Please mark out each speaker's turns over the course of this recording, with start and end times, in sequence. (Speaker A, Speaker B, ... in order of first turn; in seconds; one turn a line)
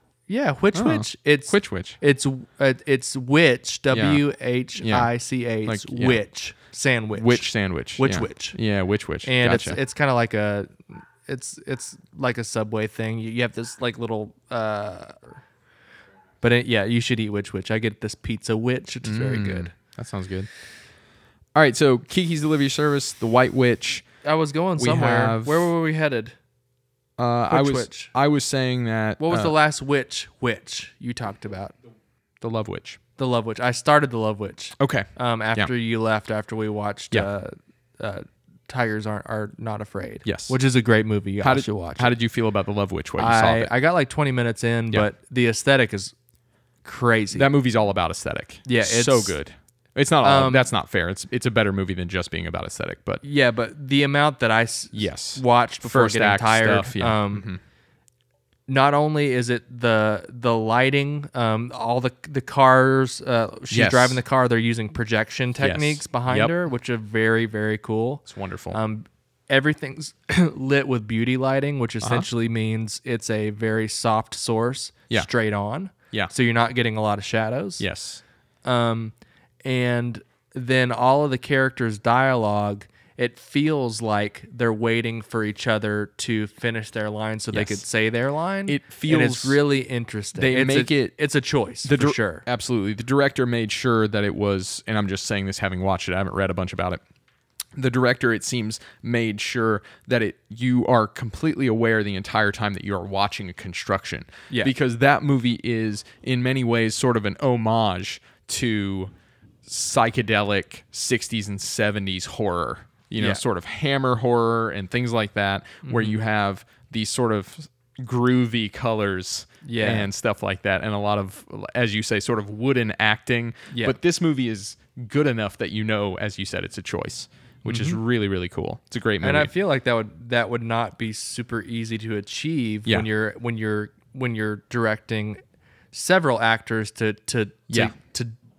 Speaker A: 0.3-8.6
Speaker B: 0.7-2.0
Speaker B: 3.9-4.2
Speaker B: 4.8-5.1
Speaker B: 5.7-6.2
Speaker B: 7.1-9.8
Speaker A: 9.2-15.4
Speaker A: 16.4-19.7
Speaker B: 19.0-20.5
Speaker B: 21.6-24.1
Speaker A: 24.2-26.4
Speaker B: 24.8-25.7
Speaker B: 27.2-29.6
Speaker A: 27.5-28.1
Speaker A: 29.2-31.7
Speaker B: 32.4-33.0
Speaker A: 33.2-42.1
Speaker B: 34.8-35.7
Speaker B: 40.2-40.6
Speaker B: 41.4-43.7
Speaker A: 43.2-46.1
Speaker A: 46.8-47.5
Speaker B: 47.3-53.2
Speaker A: 48.6-49.4
Speaker A: 50.2-50.7
Speaker A: 53.2-57.5
Speaker B: 54.9-57.6
Speaker A: 58.7-77.8
Speaker B: 63.7-64.2
Speaker B: 65.6-66.5
Speaker B: 68.3-68.8
Speaker B: 77.8-78.2
Speaker A: 78.7-92.5
Speaker B: 87.5-87.8
Speaker B: 88.7-89.6
Speaker B: 90.3-91.2
Speaker B: 91.8-97.0
Speaker B: 97.8-109.1
Speaker B: 109.7-129.5
Speaker A: 115.8-116.2
Speaker A: 119.6-120.1
Speaker A: 123.7-124.0
Speaker A: 127.7-128.0
Speaker A: 129.2-135.4
Speaker A: 135.9-138.3